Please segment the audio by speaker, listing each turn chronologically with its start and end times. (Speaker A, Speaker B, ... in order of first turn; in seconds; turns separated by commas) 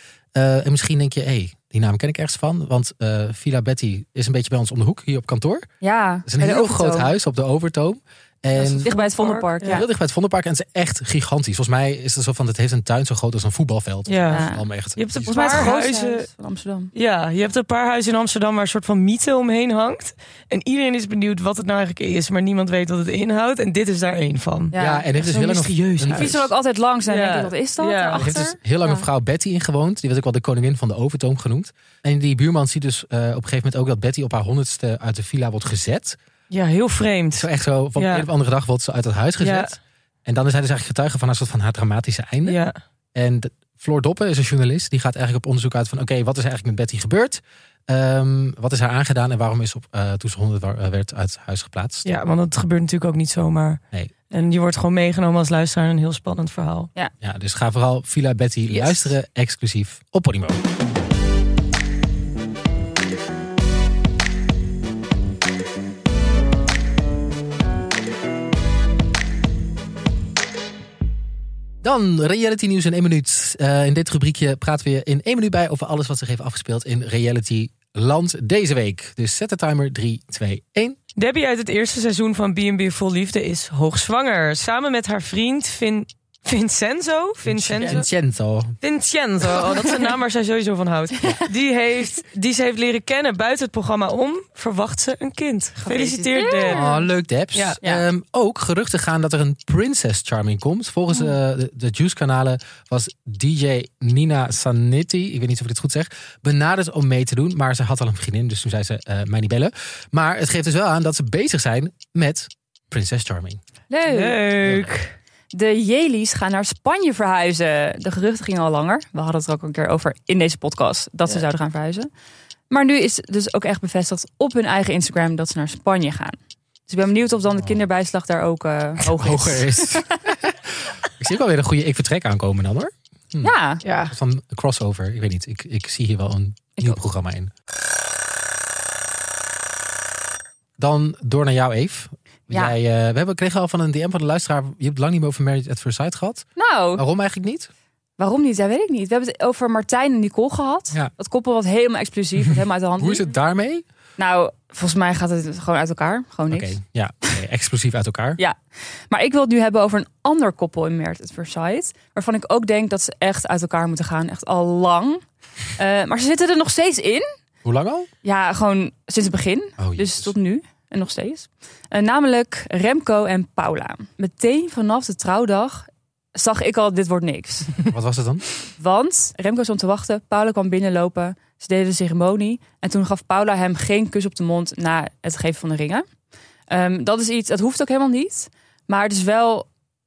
Speaker A: 0.3-5.7, Speaker B: 5.8-7.1, Speaker A: 6.3-15.7, Speaker B: 8.6-9.9, Speaker C: 8.8-9.8, Speaker C: 14.1-16.3, Speaker B: 14.3-14.6, Speaker B: 15.2-16.9, Speaker C: 16.9-26.4, Speaker B: 24.7-25.1, Speaker A: 24.8-26.5, Speaker B: 26.1-29.1, Speaker C: 27.1-28.3, Speaker A: 28.2-36.2, Speaker C: 36.5-38.3, Speaker A: 37.4-39.7, Speaker C: 39.4-39.8, Speaker A: 40.2-42.6, Speaker C: 42.5-42.8, Speaker A: 43.1-52.1, Speaker C: 52.0-56.9, Speaker A: 57.2-60.6, Speaker B: 58.7-59.1, Speaker A: 71.8-81.0, Speaker C: 81.2-88.1, Speaker A: 87.4-88.8, Speaker C: 88.8-96.9, Speaker B: 95.8-97.1, Speaker A: 96.7-113.6, Speaker C: 97.5-97.8, Speaker B: 113.9-114.5, Speaker C: 114.1-115.2, Speaker A: 114.6-114.9, Speaker B: 115.5-122.1, Speaker B: 122.7-126.4, Speaker B: 126.9-130.2, Speaker A: 129.1-133.6, Speaker B: 133.4-133.8, Speaker C: 133.8-134.1, Speaker A: 134.1-137.5, Speaker A: 140.8-147.7, Speaker B: 142.5-142.8, Speaker B: 146.6-147.1, Speaker B: 148.2-153.3, Speaker A: 152.5-153.8, Speaker B: 154.2-156.8, Speaker A: 156.5-158.4, Speaker B: 159.1-165.2, Speaker B: 165.8-167.3, Speaker A: 167.7-168.1, Speaker B: 168.2-177.8, Speaker A: 169.8-170.3, Speaker A: 177.9-178.4, Speaker B: 178.8-186.1, Speaker B: 186.7-189.7